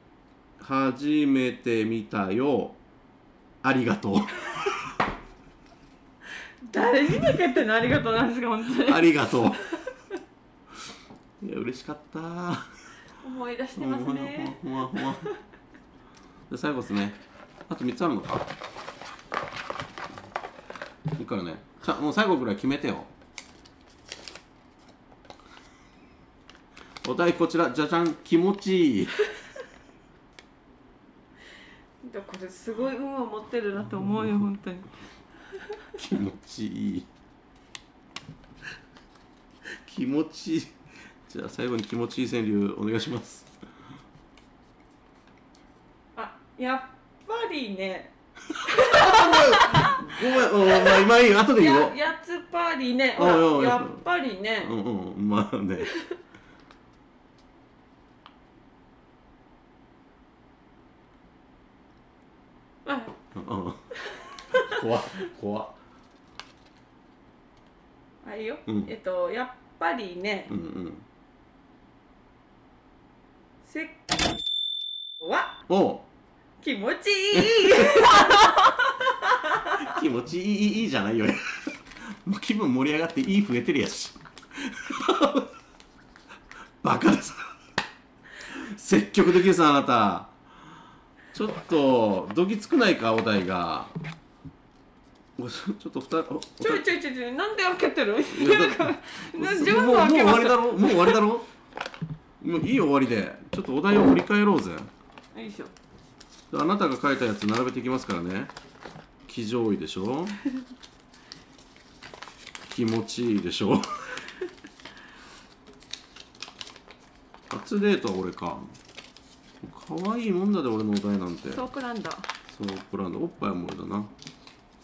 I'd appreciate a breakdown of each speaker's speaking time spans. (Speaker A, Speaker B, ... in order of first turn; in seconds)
Speaker A: 0.6-2.8, 3.6-4.9, 8.8-9.6, 11.4-12.7, 13.8-15.3, 16.5-17.2, 17.7-18.5, 21.1-23.1, 27.0-29.2, 36.0-37.1, 39.8-40.7, 41.3-43.5, 48.7-51.9, 53.2-54.0, 54.6-55.9, 63.3-63.8, 64.5-65.7, 70.5-71.0, 75.7-76.1, 77.3-78.6, 79.8-85.5, 86.8-87.5, 88.5-90.3, 91.3-93.9, 95.4-96.8, 98.3-101.5, 102.4-104.9, 106.5-108.5, 109.3-110.4, 112.7-114.2, 117.5-118.7, 119.6-121.6, 122.5-124.1
Speaker B: 6.6-9.5, 13.2-15.3, 32.0-34.9, 46.1-48.1, 48.6-51.0, 51.5-54.7, 62.8-63.1, 64.1-64.8, 68.2-70.5, 73.6-74.2, 75.2-75.5, 76.6-79.8, 96.6-101.2, 105.3-105.7, 121.5-122.3